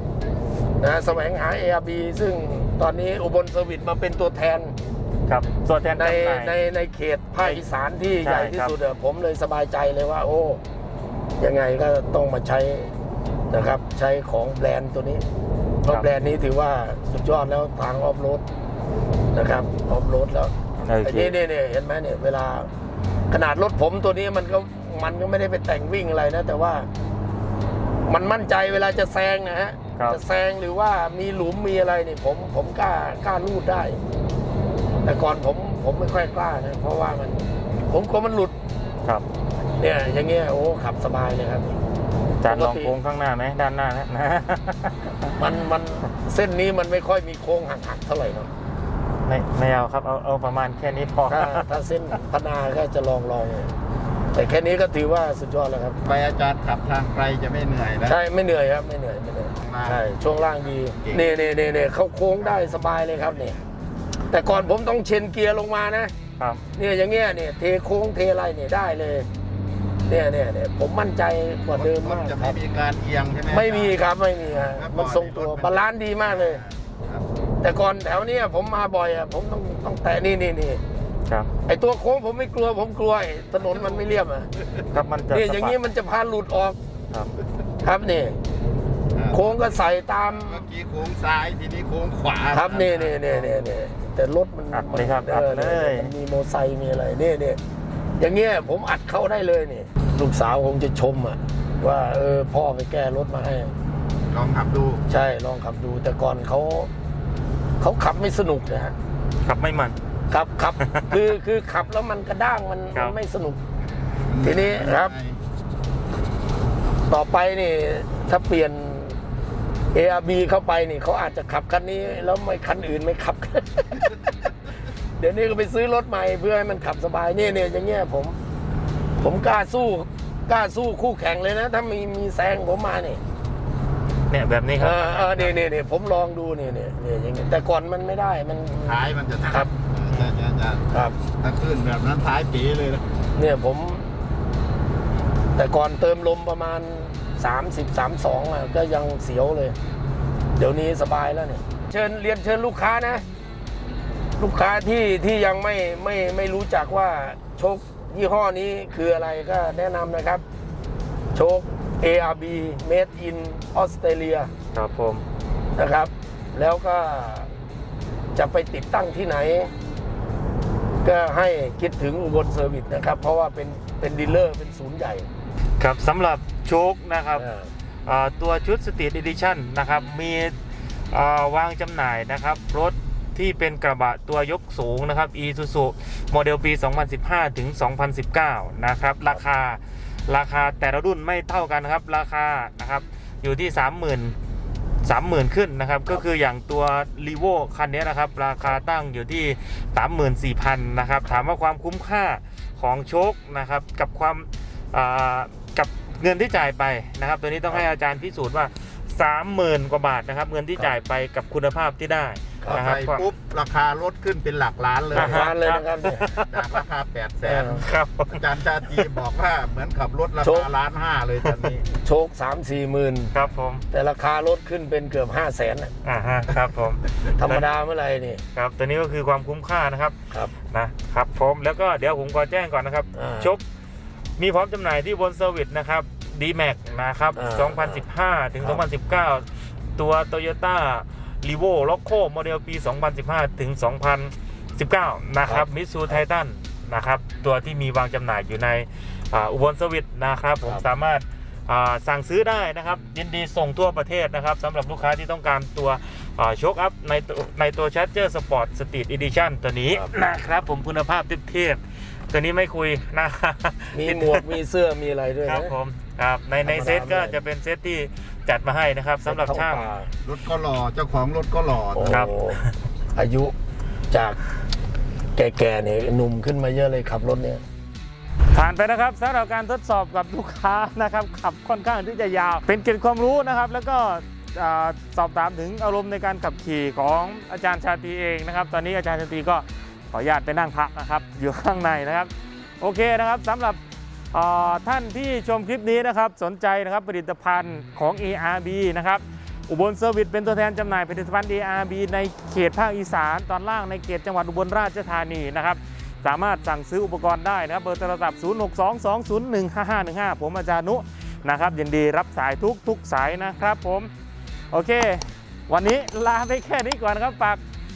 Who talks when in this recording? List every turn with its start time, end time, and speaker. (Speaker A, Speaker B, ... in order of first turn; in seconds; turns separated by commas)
Speaker A: 0.8-4.8, Speaker B: 5.3-6.5, Speaker A: 6.0-10.6, Speaker B: 8.2-8.7, Speaker A: 11.4-12.9, Speaker A: 13.5-15.2, Speaker A: 15.8-18.4, Speaker A: 19.3-22.7, Speaker B: 20.8-21.3, Speaker A: 23.3-26.9, Speaker A: 28.1-34.0, Speaker A: 35.0-38.5, Speaker A: 39.8-41.8, Speaker B: 42.4-45.3, Speaker A: 42.4-42.9, Speaker A: 45.3-48.5, Speaker B: 49.2-51.7, Speaker A: 51.3-53.7, Speaker A: 54.3-56.0, Speaker C: 56.0-58.2, Speaker A: 58.0-63.6, Speaker C: 59.6-60.1, Speaker C: 60.9-61.5, Speaker C: 62.5-62.9, Speaker A: 64.3-66.1, Speaker A: 66.7-69.3, Speaker A: 70.1-72.6, Speaker C: 71.8-74.0, Speaker A: 73.5-76.6, Speaker C: 74.6-77.2, Speaker A: 77.6-80.8, Speaker A: 81.7-84.5, Speaker B: 84.9-85.8, Speaker A: 85.3-86.8, Speaker B: 87.1-87.4, Speaker A: 87.8-88.4, Speaker C: 89.1-89.6, Speaker A: 89.3-90.6, Speaker C: 90.4-93.6, Speaker A: 92.5-97.6, Speaker B: 94.7-96.1, Speaker A: 98.2-103.7, Speaker C: 104.3-105.0, Speaker A: 105.1-106.9, Speaker A: 107.8-108.9, Speaker B: 109.4-110.0, Speaker A: 110.3-113.6, Speaker B: 110.8-111.2, Speaker C: 114.3-115.4, Speaker A: 114.4-115.1, Speaker A: 117.1-119.2, Speaker A: 119.9-124.2, Speaker A: 125.2-128.4, Speaker A: 129.2-133.2, Speaker B: 134.3-135.5, Speaker A: 134.8-139.7, Speaker C: 138.8-143.0, Speaker A: 140.9-141.2, Speaker A: 143.3-144.1, Speaker A: 145.5-149.8, Speaker A: 150.6-153.2, Speaker A: 154.4-160.4, Speaker A: 161.3-164.5, Speaker B: 164.7-165.2, Speaker A: 165.8-167.5, Speaker A: 168.3-169.7, Speaker A: 171.0-175.3, Speaker B: 175.8-177.5, Speaker A: 177.4-177.7, Speaker B: 178.1-180.5, Speaker B: 181.1-194.3, Speaker B: 195.0-213.3, Speaker C: 212.7-215.5, Speaker A: 215.1-216.3, Speaker B: 215.1-216.8, Speaker C: 216.4-221.8, Speaker A: 217.4-217.8, Speaker B: 217.7-218.4, Speaker A: 220.4-220.7, Speaker A: 221.9-223.3, Speaker B: 223.3-223.8, Speaker A: 223.9-225.9, Speaker B: 226.0-227.7, Speaker A: 227.2-228.4, Speaker B: 228.5-233.6, Speaker A: 233.1-233.5, Speaker B: 234.4-264.6, Speaker A: 237.3-238.0, Speaker A: 263.9-265.8, Speaker B: 265.4-269.9, Speaker A: 266.6-267.4, Speaker A: 269.2-270.1, Speaker C: 270.2-272.2, Speaker A: 271.9-272.6, Speaker B: 272.1-272.6, Speaker A: 273.1-273.5, Speaker A: 274.1-274.4, Speaker A: 275.4-277.6, Speaker B: 278.5-293.8, Speaker B: 294.3-314.1, Speaker B: 314.7-317.6